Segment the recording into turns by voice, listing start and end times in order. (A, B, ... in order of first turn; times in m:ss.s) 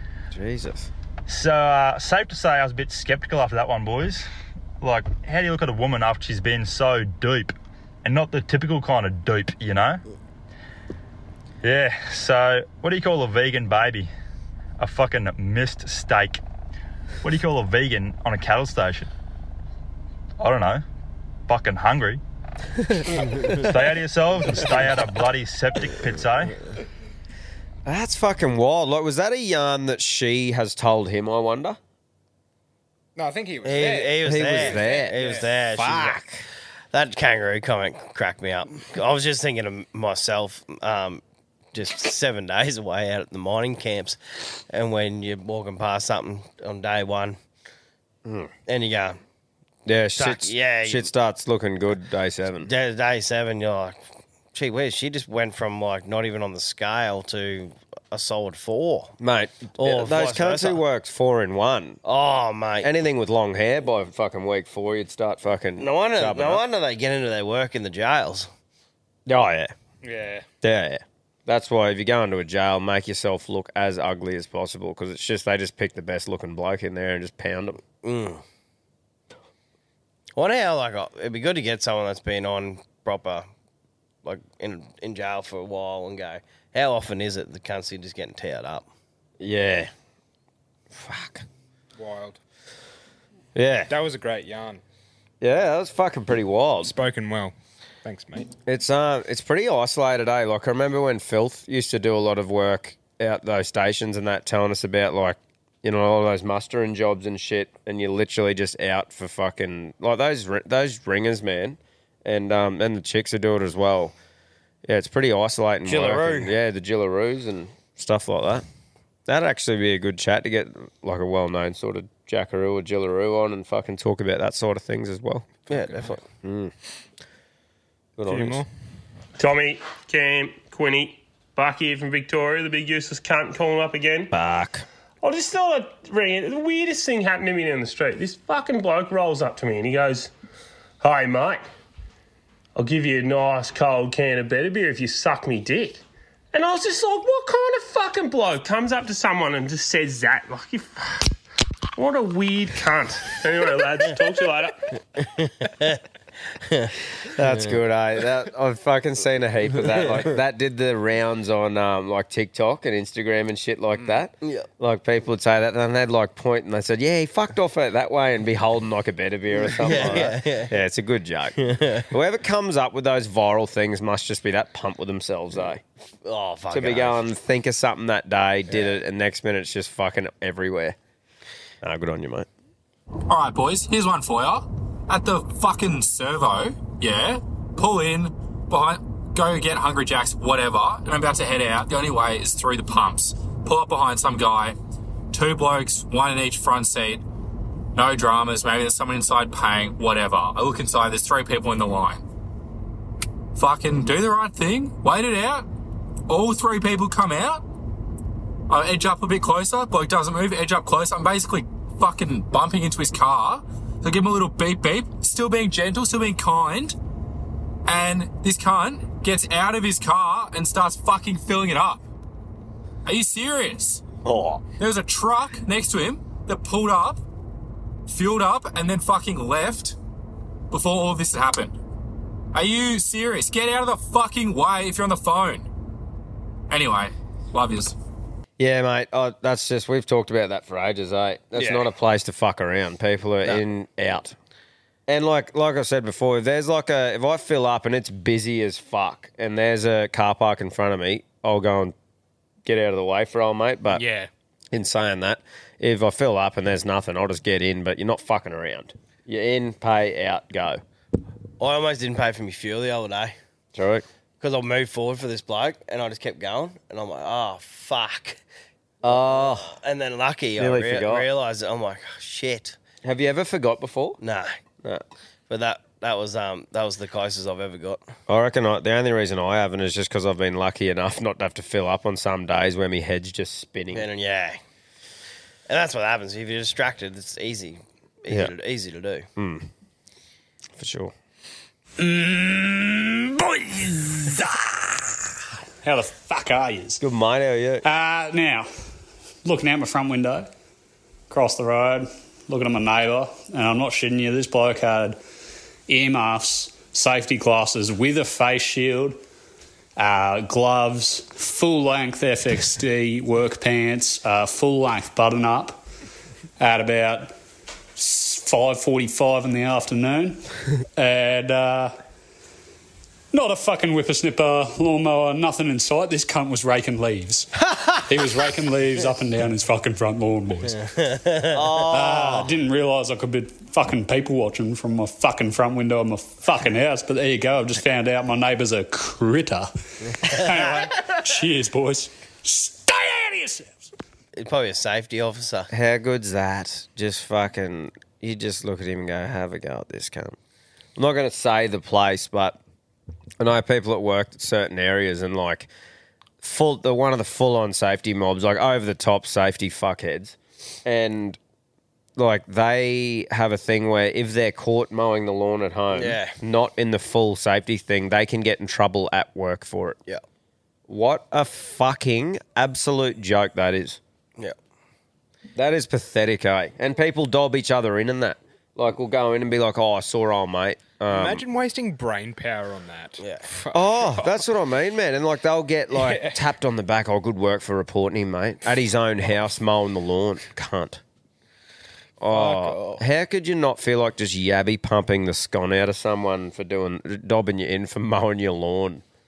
0:00.3-0:00.9 A
0:01.3-0:04.3 B
0:04.8-0:10.0 B
0:11.6-0:14.1 B
0:14.8-0:16.4 B
0:17.2-0:19.1 B
0:20.4-0:20.8 B
0:21.5-0:22.2 B
0:23.6-0:26.5 B
0:27.8-0:31.8 A
0:33.2-0:35.5 C
0:33.6-0:36.2 D
0:34.2-0:35.2 A
0:35.7-0:36.4 A
0:36.9-0:41.2 D
0:41.7-0:44.2 D
0:44.7-0:47.4 D
0:48.2-0:48.5 A
0:48.7-0:49.2 D
0:49.8-0:52.7 A
0:50.2-0:51.1 D
0:52.6-0:54.0 D
0:54.5-0:59.1 D
0:59.2-1:02.0 A
0:59.8-1:00.8 D
1:02.0-1:02.9 D
1:02.8-1:06.6 A
1:05.8-1:08.5 D
1:09.2-1:09.7 A
1:10.0-1:10.4 C
1:10.6-1:17.8 A
1:18.0-1:18.4 D
1:20.4-1:23.5 D
1:24.2-1:28.9 D
1:29.4-1:29.9 A
1:30.9-1:31.4 A
1:32.0-1:32.4 C
1:33.5-1:33.9 A
1:33.9-1:34.8 C
1:35.4-1:36.9 A
1:36.8-1:38.5 C
1:38.7-1:54.1 A
1:54.8-1:58.6 A
1:55.8-1:56.5 D
1:59.3-2:05.7 A
2:05.7-2:06.2 D
2:06.4-2:06.7 A
2:08.2-2:08.6 A
2:08.2-2:08.7 C
2:09.4-2:14.3 E
2:14.3-2:14.8 A
2:15.2-2:20.3 E
2:21.0-2:21.6 E
2:22.8-2:31.2 E
2:32.0-2:34.8 E
2:35.4-2:36.0 D
2:36.6-2:36.9 D
2:37.3-2:55.8 A
2:44.4-2:44.7 D
2:49.6-2:50.7 D
2:51.6-2:52.1 D
2:56.2-2:57.2 D
2:56.7-3:01.0 A
3:01.8-3:02.5 A
3:03.3-3:14.8 F
3:15.3-3:17.2 F
3:17.9-3:22.2 F
3:23.6-3:25.7 F
3:26.3-3:27.6 F
3:28.7-3:37.0 F
3:37.8-3:42.0 F
3:43.0-3:44.0 F
3:44.2-3:44.6 A
3:44.8-3:47.2 F
3:48.1-3:50.0 F
3:50.7-3:51.7 F
3:52.5-3:55.6 F
3:56.7-3:57.9 F
3:58.6-4:04.4 A
4:01.6-4:01.8 D
4:05.1-4:11.9 A
4:12.6-4:14.0 A
4:13.9-4:14.3 C
4:14.7-4:20.8 A
4:21.6-4:23.4 D
4:23.7-4:24.0 A
4:24.4-4:28.4 D
4:29.0-4:29.7 A
4:29.0-4:32.8 D
4:30.6-4:31.3 A
4:33.0-4:34.2 A
4:34.2-4:34.5 D
4:35.5-4:38.0 D
4:38.3-4:44.0 A
4:43.9-4:44.6 D
4:45.7-4:49.2 D
4:49.4-4:49.7 A
4:50.8-4:51.1 A
4:52.0-4:55.2 G
4:55.8-4:57.0 G
4:57.0-4:57.8 A
4:57.8-4:58.7 G
4:59.4-5:00.5 G
5:01.3-5:05.2 G
5:05.9-5:09.2 G
5:10.0-5:15.8 G
5:16.6-5:17.3 G
5:18.0-5:20.4 G
5:21.0-5:21.9 G
5:23.3-5:27.5 G
5:28.0-5:30.8 G
5:30.8-5:31.9 D
5:31.5-5:32.5 A
5:31.9-5:43.8 G
5:44.4-5:45.7 D
5:45.7-5:50.4 A
5:51.0-5:52.6 A
5:53.4-5:55.7 A
5:56.4-6:01.4 A
6:02.2-6:10.0 A
6:05.9-6:06.3 D
6:10.9-6:14.0 A
6:15.5-6:21.4 A
6:21.1-6:24.4 C
6:23.2-6:23.4 D
6:23.7-6:31.0 A
6:25.9-6:26.4 C
6:32.2-6:39.0 A
6:32.3-6:33.0 C